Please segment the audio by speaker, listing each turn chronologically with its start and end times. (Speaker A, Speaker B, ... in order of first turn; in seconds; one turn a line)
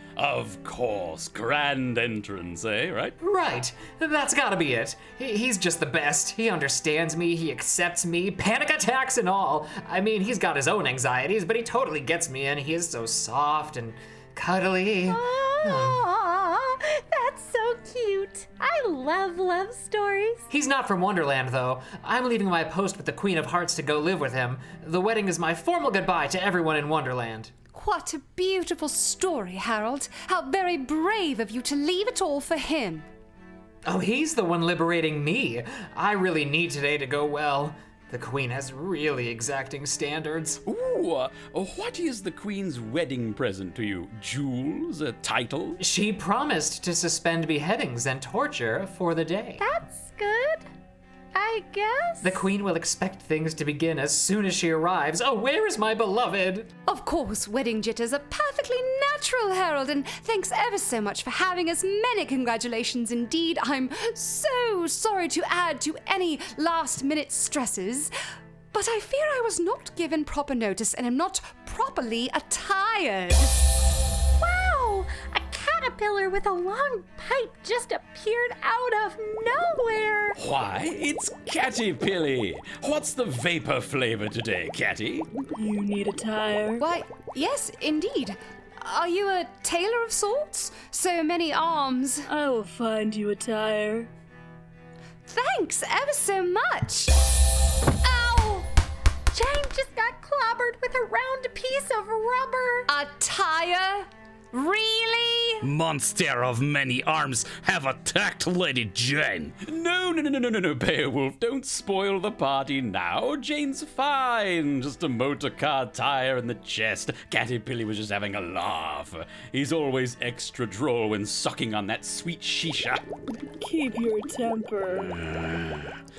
Speaker A: 0.2-3.2
Speaker B: 3.2-16.0
Speaker C: 15.1-20.4
Speaker B: 20.5-27.5
Speaker D: 27.7-33.1
Speaker B: 33.9-40.6
Speaker A: 40.7-45.8
Speaker B: 45.8-49.6
Speaker C: 49.6-50.7
Speaker C: 51.3-52.4
Speaker B: 52.2-56.7
Speaker D: 56.9-68.1
Speaker D: 68.7-73.8
Speaker C: 74.4-80.4
Speaker A: 80.4-85.3
Speaker E: 85.5-86.8
Speaker D: 86.8-92.3
Speaker E: 92.2-94.1
Speaker D: 95.3-97.3
Speaker D: 97.9-98.7
Speaker C: 99.3-102.9
Speaker D: 102.9-105.7
Speaker F: 105.6-109.6
Speaker A: 109.6-123.0
Speaker E: 123.6-125.2
Speaker F: 125.2-125.9